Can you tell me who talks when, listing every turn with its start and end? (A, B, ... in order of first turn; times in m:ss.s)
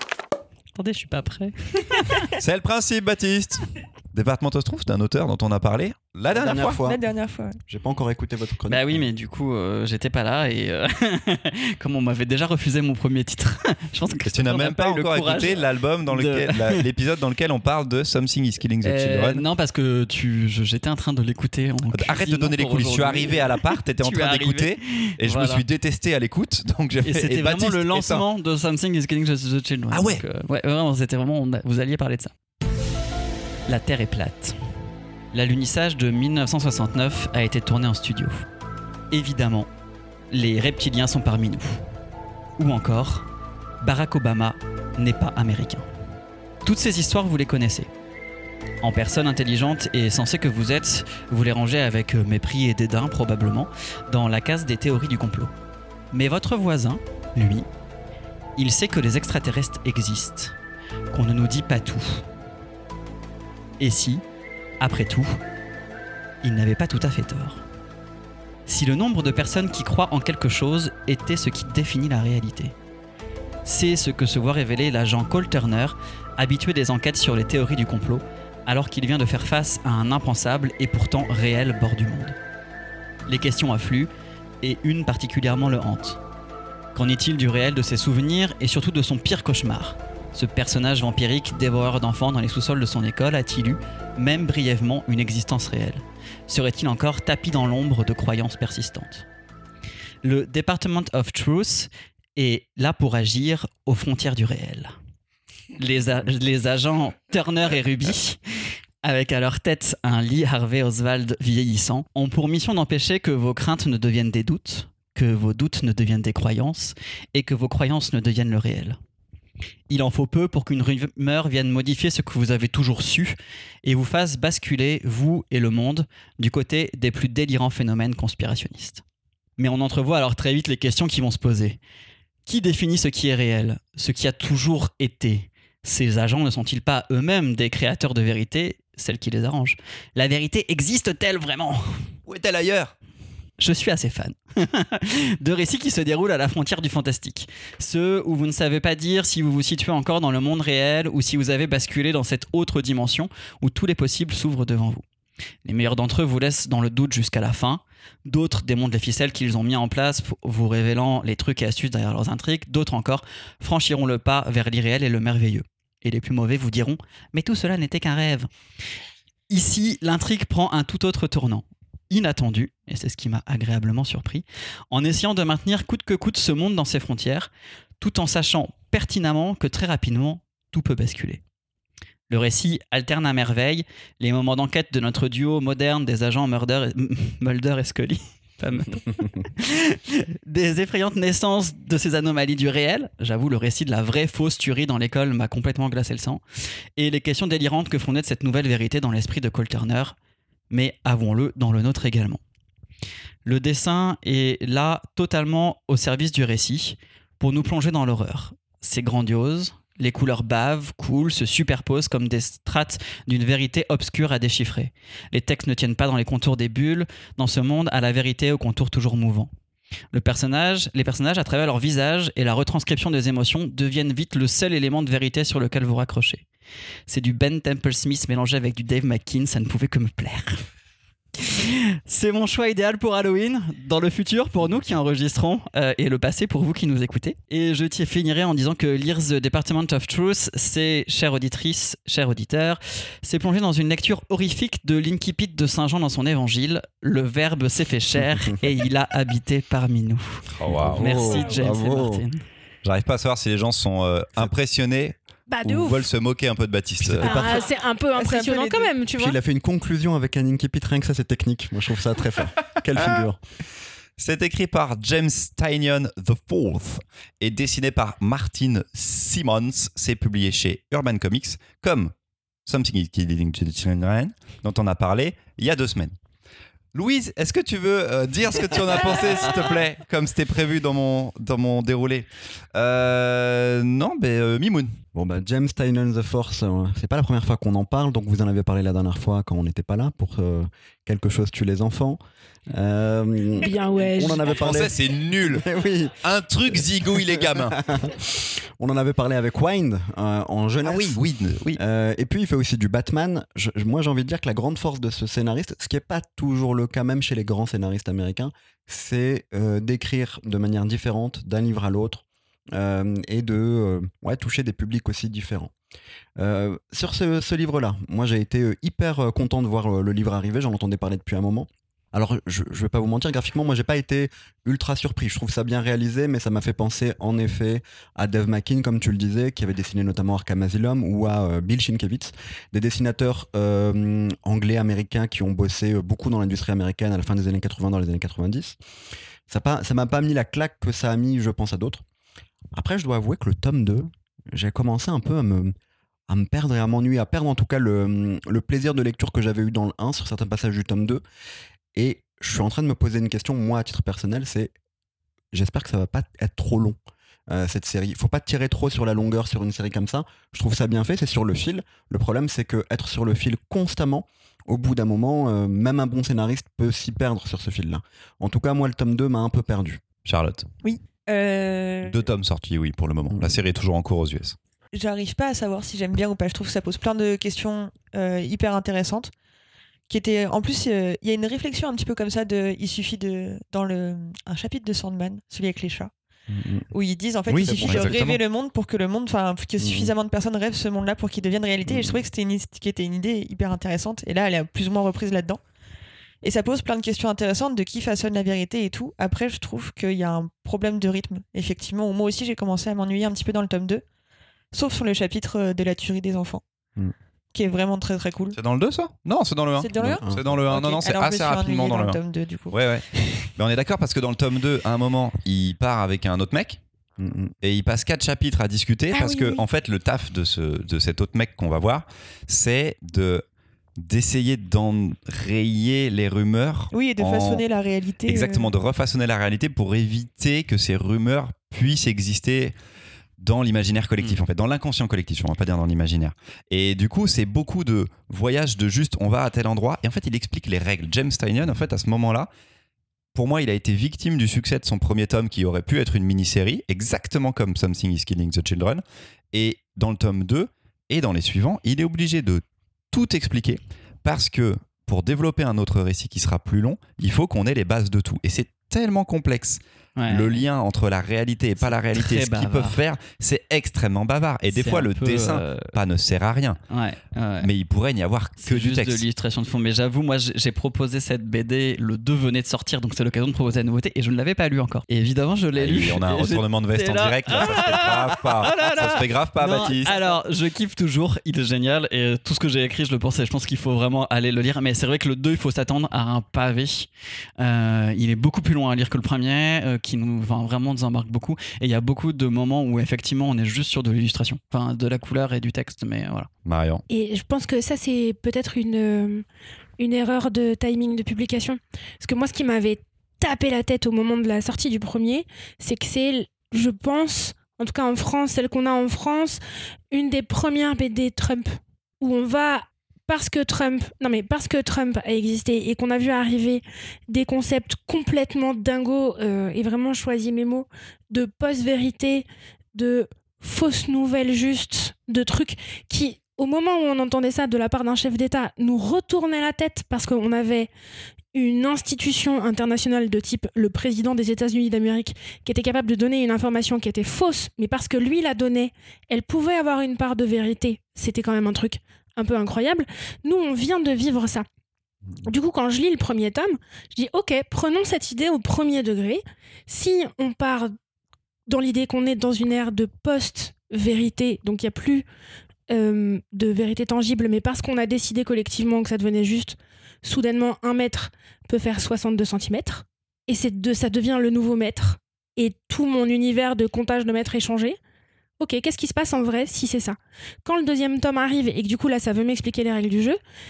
0:00.7-0:02.3 A
0:02.4-0:06.8 B
0:06.3-0:07.1 C
0:06.8-0:07.6 D
0:07.7-0:09.0 C
0:08.7-0:16.8 A
0:14.2-0:19.4 B
0:18.8-0:25.6 A
0:21.9-0:28.2 B
0:27.0-0:32.3 A
0:29.9-0:30.2 B
0:33.7-0:34.6 A
0:35.3-0:38.5 A
0:39.1-0:39.7 A
0:40.3-0:41.8 A
0:42.6-0:43.3 A
0:43.8-0:45.8 A
0:46.6-0:47.9 A
0:48.8-0:55.5 A
0:56.1-0:57.7 A
0:58.6-1:00.5 A
1:01.1-1:02.2 A
1:03.8-1:04.2 A
1:04.8-1:05.4 A
1:06.4-1:07.6 A
1:08.7-1:12.7 A
1:13.6-1:22.4 A
1:23.3-1:24.1 A
1:24.6-1:26.2 A
1:26.9-1:39.2 A
1:40.2-1:44.9 A
1:45.8-1:48.4 A
1:49.0-1:59.0 A
1:59.9-2:09.0 A
2:09.6-2:11.8 A
2:12.4-2:22.1 A
2:22.3-2:22.9 B
2:23.6-2:35.0 A
2:35.6-2:48.5 A
2:49.5-3:01.4 A
3:02.3-3:16.4 A
3:17.0-3:20.2 A
3:20.7-3:22.4 A
3:23.4-3:39.5 A
3:40.1-3:46.4 A
3:47.1-3:50.6 A
3:51.4-4:12.4 A
4:10.5-4:11.0 B
4:10.7-4:12.2 C
4:11.2-4:11.6 E
4:12.8-4:17.4 B
4:15.5-4:16.1 E
4:17.0-4:17.7 C
4:17.2-4:19.4 E
4:17.3-4:18.9 D
4:19.2-4:23.4 C
4:24.2-4:32.1 B
4:32.6-4:36.2 B
4:36.9-4:45.0 B
4:45.1-5:15.7 C
4:53.6-4:54.4 E
4:54.4-4:55.6 B
4:56.2-4:57.8 B
5:00.8-5:01.8 B
5:16.4-5:38.8 C
5:39.5-5:42.0 C
5:42.7-5:45.7 C
5:46.3-5:51.2 C
5:51.9-5:54.7 C
5:55.5-5:57.0 C
5:57.5-6:10.0 C
6:10.2-6:10.7 B
6:10.8-6:12.2 D
6:12.0-6:14.6 B
6:14.9-6:19.3 D
6:20.1-6:26.1 D
6:26.5-6:26.9 C
6:26.9-6:35.6 D
6:27.5-6:28.4 B
6:27.6-6:28.3 C
6:29.8-6:30.1 C
6:31.8-6:32.2 C
6:36.4-6:44.0 D
6:44.7-6:46.6 D
6:47.5-6:48.6 D
6:48.5-6:56.8 B
6:49.8-6:52.7 D
6:50.0-6:50.4 C
6:57.2-6:57.5 C
6:57.6-7:03.4 B
6:59.1-6:59.6 E
7:04.0-7:07.6 B
7:06.9-7:08.7 D
7:08.2-7:12.7 B
7:13.4-7:22.5 B
7:23.3-7:46.8 B
7:40.2-7:40.6 A
7:41.8-7:43.0 A
7:44.7-7:45.9 A
7:46.9-7:47.7 A
7:47.6-7:49.2 B
7:48.6-8:16.5 A
7:55.8-8:00.3 B
8:16.6-8:17.0 B
8:17.1-8:19.4 E
8:20.0-8:50.9 E
8:51.5-9:04.6 E
9:05.4-9:10.9 E
9:11.7-9:15.2 E
9:15.9-9:28.0 E
9:28.6-9:33.4 E